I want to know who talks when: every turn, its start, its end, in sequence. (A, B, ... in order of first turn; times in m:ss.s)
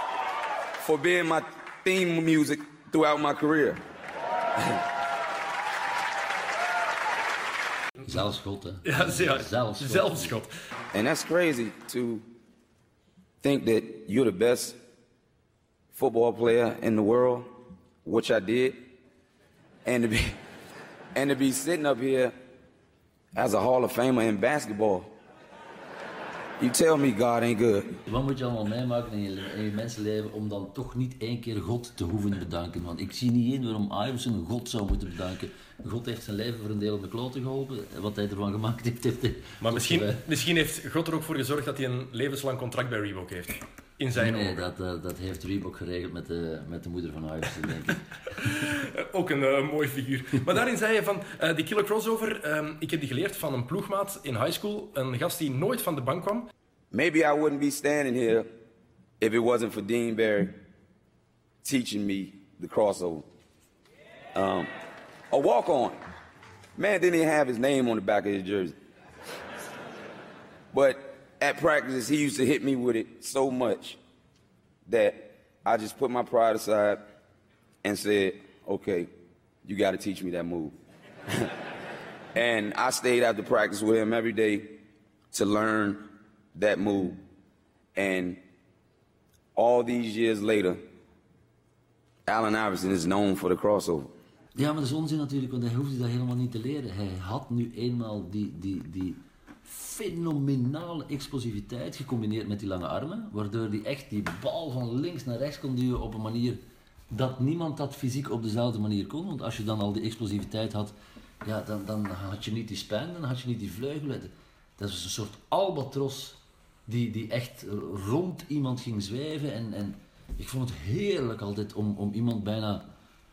0:00.8-0:03.8 A
0:08.0-0:10.4 B
0:08.8-0:10.5 C
0:10.9-0:12.2 A
0:13.4-0:14.8 A
0:15.9-0:17.5 A
0:18.0-0:18.8 A
0:19.8-0:20.4 A
0:21.2-0:22.3 A
0:23.4-0:25.1 A
0:26.6-0:28.0 A
0:28.1-0:40.3 B
0:39.6-0:44.7 C
0:44.1-0:48.4 B
0:48.4-0:56.5 C
0:56.9-0:58.5 A
0:59.2-1:00.6 A
1:01.6-1:03.3 A
1:04.4-1:04.7 A
1:05.3-1:06.0 A
1:06.8-1:08.8 A
1:10.7-1:14.0 A
1:14.9-1:17.0 A
1:17.8-1:19.1 A
1:19.6-1:20.8 A
1:22.4-1:24.7 A
1:25.3-1:26.0 A
1:26.6-1:27.2 A
1:28.0-1:28.4 A
1:29.6-1:30.8 A
1:32.3-1:34.1 A
1:34.6-2:02.8 B